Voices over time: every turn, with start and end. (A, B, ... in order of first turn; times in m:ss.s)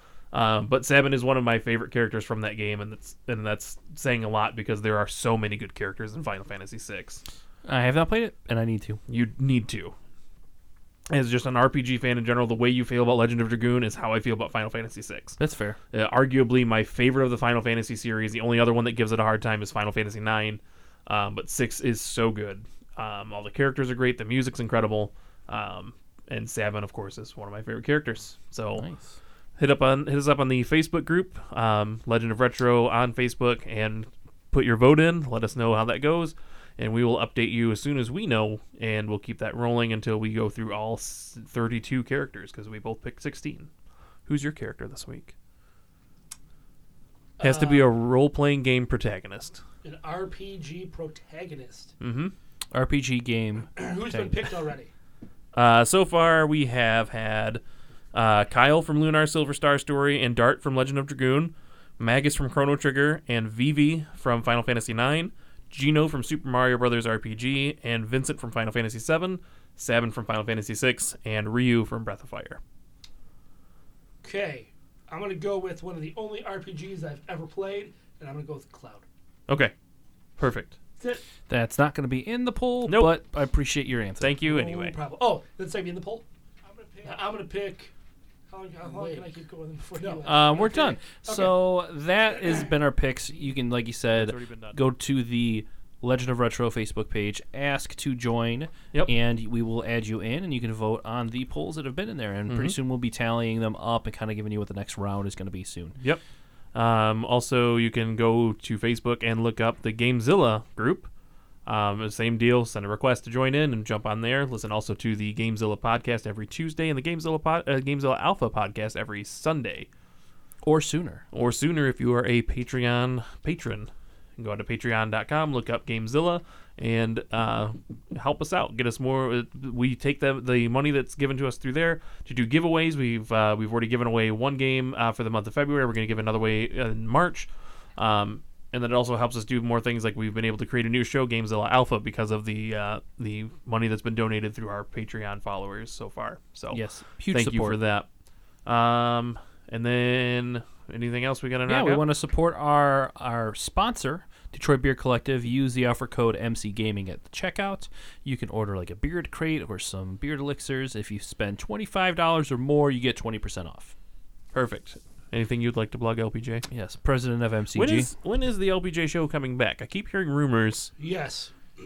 0:00.3-0:07.2 A
0:07.6-0:09.0 B
0:09.1-0:09.9 A
0:11.1-0:15.4 A
0:15.4-0:15.8 B
0:15.9-0:28.8 A
0:28.8-0:29.1 B
0:29.6-0:43.7 A
0:44.3-0:45.3 A
0:47.4-0:47.9 C
0:47.4-0:49.6 A
0:49.8-0:51.9 C
0:52.0-0:52.4 A
0:52.7-0:54.5 B
0:53.8-0:54.9 C
0:55.5-0:57.6 A
0:58.1-1:12.6 A
1:14.2-1:19.0 C
1:19.5-1:19.7 A
1:20.4-1:20.8 A
1:21.5-1:24.3 B
1:22.8-1:23.2 A
1:24.2-1:25.0 A
1:24.4-1:27.9 C
1:28.5-1:31.7 C
1:30.2-1:46.0 B
1:34.1-1:34.8 A
1:42.5-1:42.8 A
1:46.7-1:51.1 A
1:51.7-1:59.9 A
2:00.6-2:01.2 B
2:01.3-2:28.1 A
2:26.7-2:27.8 B
2:28.7-2:32.0 A
2:31.7-2:43.9 B
2:44.5-2:46.6 A
2:46.7-2:48.1 B
2:47.7-2:50.9 A
2:51.0-2:51.5 C